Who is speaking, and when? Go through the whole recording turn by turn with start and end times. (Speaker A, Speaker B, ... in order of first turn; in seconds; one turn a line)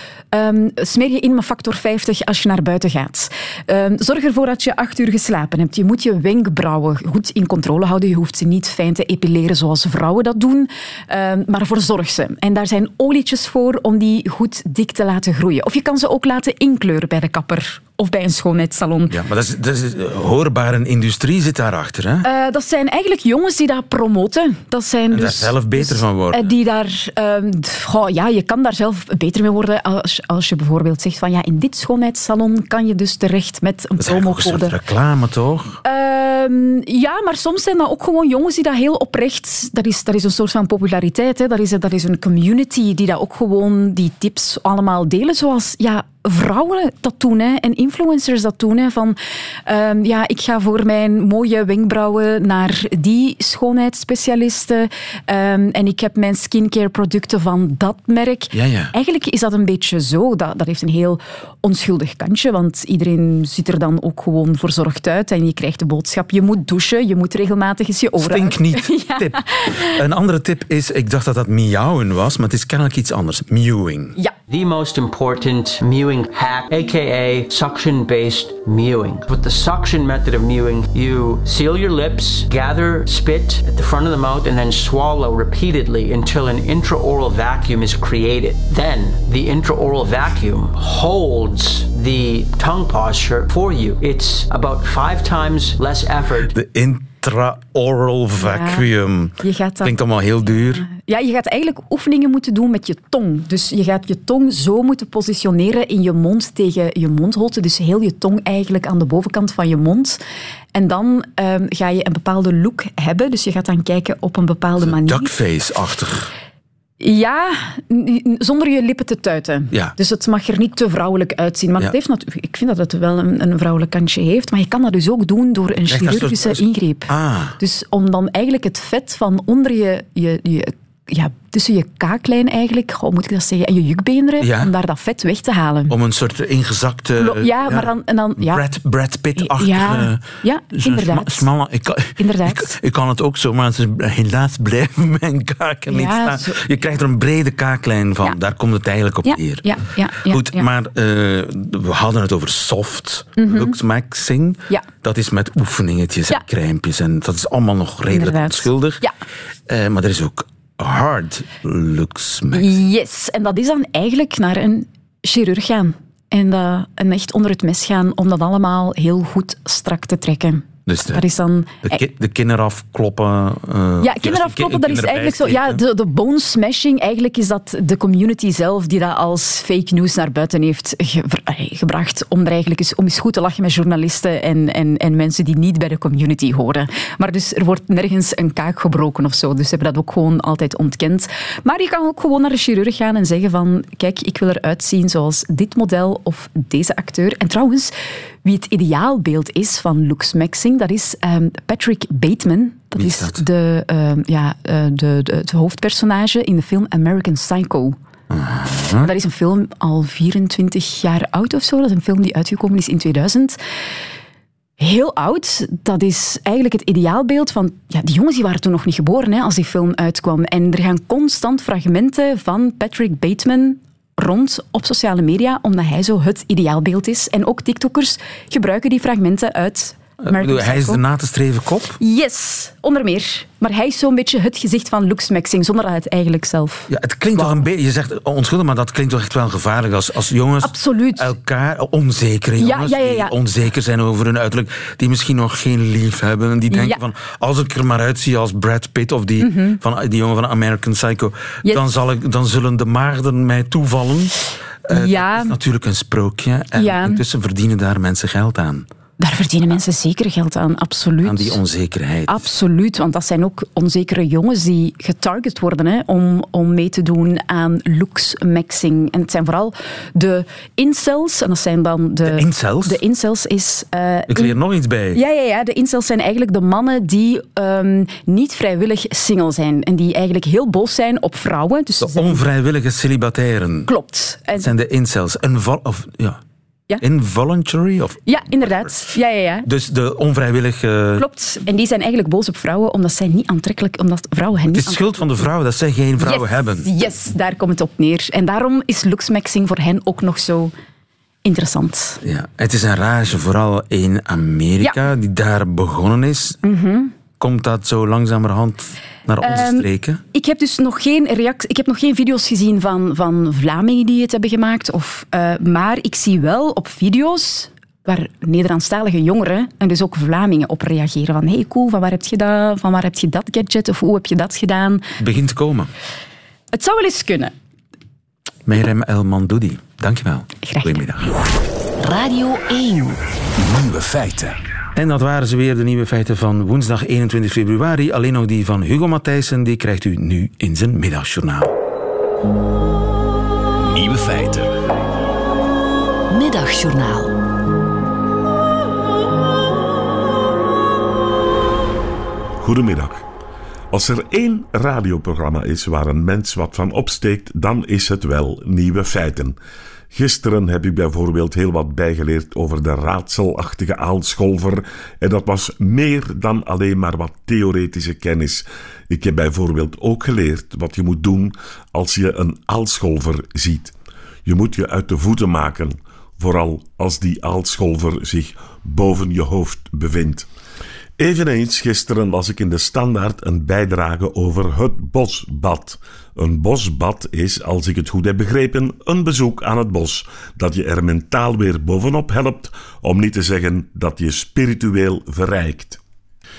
Speaker A: 0.3-19.2
Speaker B: 19.1-22.2
Speaker A: 22.2-34.8
Speaker B: 25.1-26.5
Speaker B: 34.0-35.8
Speaker A: 35.8-69.9
Speaker B: 58.5-58.9
Speaker B: 68.2-74.2
Speaker C: 74.5-96.5
Speaker B: 96.5-100.8
Speaker A: 98.4-98.9
Speaker A: 99.4-100.0
Speaker A: 100.7-110.2
Speaker A: 110.7-115.3
Speaker B: 114.8-116.3
Speaker A: 117.0-135.9
Speaker B: 125.9-127.6
Speaker B: 134.4-134.7
Speaker B: 135.9-159.0
Speaker A: 137.2-138.6
Speaker A: 139.4-141.5
Speaker A: 142.2-142.7
Speaker A: 145.9-146.6
Speaker A: 149.2-150.7
Speaker A: 153.4-153.7
Speaker A: 158.1-159.1
Speaker B: 159.7-162.8
Speaker A: 162.5-172.0
Speaker B: 170.8-171.2
Speaker B: 171.8-175.8
Speaker A: 174.0-197.9
Speaker A: 198.4-207.9
Speaker B: 203.0-203.4
Speaker B: 208.3-209.1
Speaker A: 209.0-213.6
Speaker A: 214.8-231.0
Speaker B: 230.2-232.0
Speaker A: 232.0-237.6
Speaker B: 236.9-258.9
Speaker A: 240.6-241.3
Speaker A: 242.6-243.3
Speaker A: 246.7-247.0
Speaker A: 249.4-249.8
Speaker A: 254.9-255.5
Speaker A: 256.8-257.2
Speaker A: 259.2-261.6
Speaker B: 261.2-262.5
Speaker A: 262.3-274.6
Speaker B: 272.2-273.0
Speaker B: 274.3-275.2
Speaker A: 275.1-282.4
Speaker B: 282.0-283.9
Speaker A: 283.9-284.7
Speaker B: 284.5-286.4
Speaker B: 287.0-289.0
Speaker A: 288.2-289.7
Speaker B: 289.6-291.2
Speaker A: 291.2-295.0
Speaker B: 294.7-296.9
Speaker A: 296.2-300.7
Speaker A: 301.4-302.2
Speaker B: 302.2-306.6
Speaker A: 306.6-307.1
Speaker B: 307.4-310.2
Speaker A: 309.4-325.0
Speaker B: 325.2-325.9
Speaker A: 326.7-327.5
Speaker B: 328.6-331.3
Speaker A: 330.6-331.1
Speaker D: 332.0-333.2
Speaker E: 333.6-334.6
Speaker B: 334.9-341.7
Speaker E: 343.8-344.8
Speaker D: 346.3-347.4
Speaker F: 352.6-353.2
Speaker F: 353.9-359.6
Speaker F: 360.1-373.9
Speaker F: 374.4-380.5
Speaker F: 381.2-396.0